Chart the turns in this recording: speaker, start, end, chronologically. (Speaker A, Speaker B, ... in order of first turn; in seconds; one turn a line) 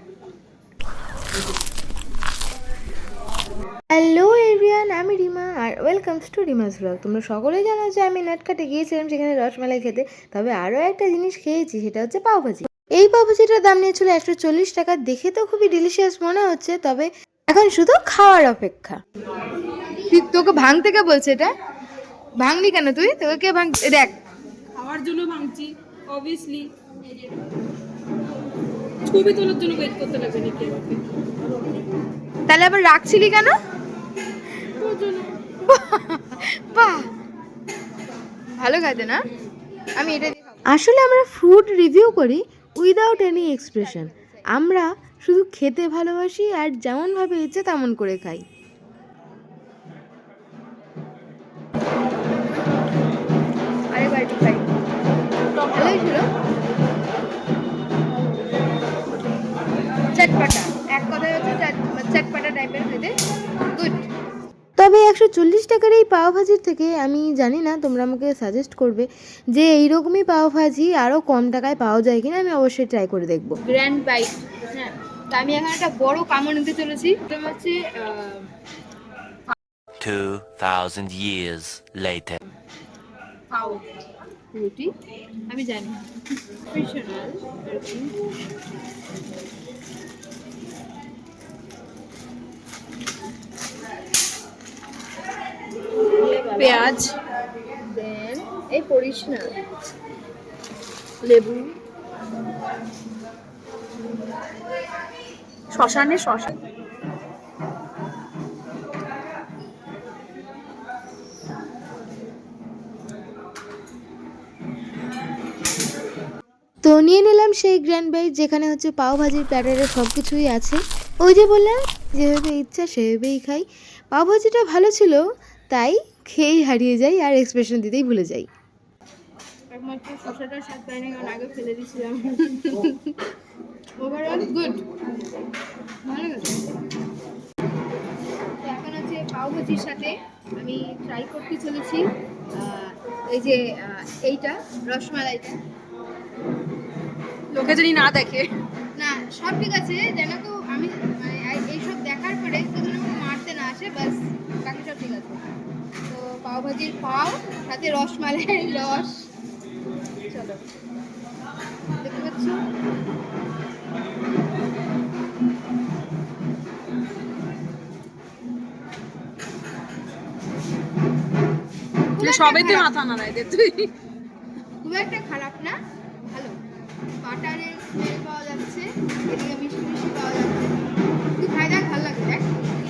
Speaker A: 3.9-19.0
Speaker B: 20.0-21.5
Speaker B: 22.4-24.2
Speaker C: 24.7-26.7
Speaker C: 29.1-31.0
Speaker B: 32.5-33.5
Speaker C: 34.8-35.3
Speaker B: 35.6-37.1
Speaker B: 38.5-39.2
Speaker B: 40.0-40.4
Speaker A: 40.7-48.4
Speaker B: 43.2-44.4
Speaker B: 53.9-54.7
Speaker B: 55.6-56.2
Speaker B: 60.1-63.1
Speaker B: 63.7-64.0
Speaker A: 64.8-73.6
Speaker B: 73.7-78.5
Speaker D: 80.0-82.4
Speaker B: 84.5-84.9
Speaker B: 85.5-88.1
Speaker B: 96.2-96.9
Speaker C: 96.5-97.1
Speaker B: 97.8-99.5
Speaker C: 101.2-101.8
Speaker C: 105.7-106.5
Speaker A: 116.8-128.5
Speaker B: 129.7-133.2
Speaker B: 134.0-134.8
Speaker B: 136.1-136.6
Speaker B: 138.6-145.6
Speaker C: 147.5-148.5
Speaker B: 148.9-155.4
Speaker B: 156.1-159.2
Speaker B: 160.3-160.6
Speaker B: 162.0-162.6
Speaker B: 172.2-172.9
Speaker C: 172.2-173.9
Speaker B: 174.8-175.8
Speaker B: 176.3-176.6
Speaker B: 177.2-180.8
Speaker B: 181.4-182.5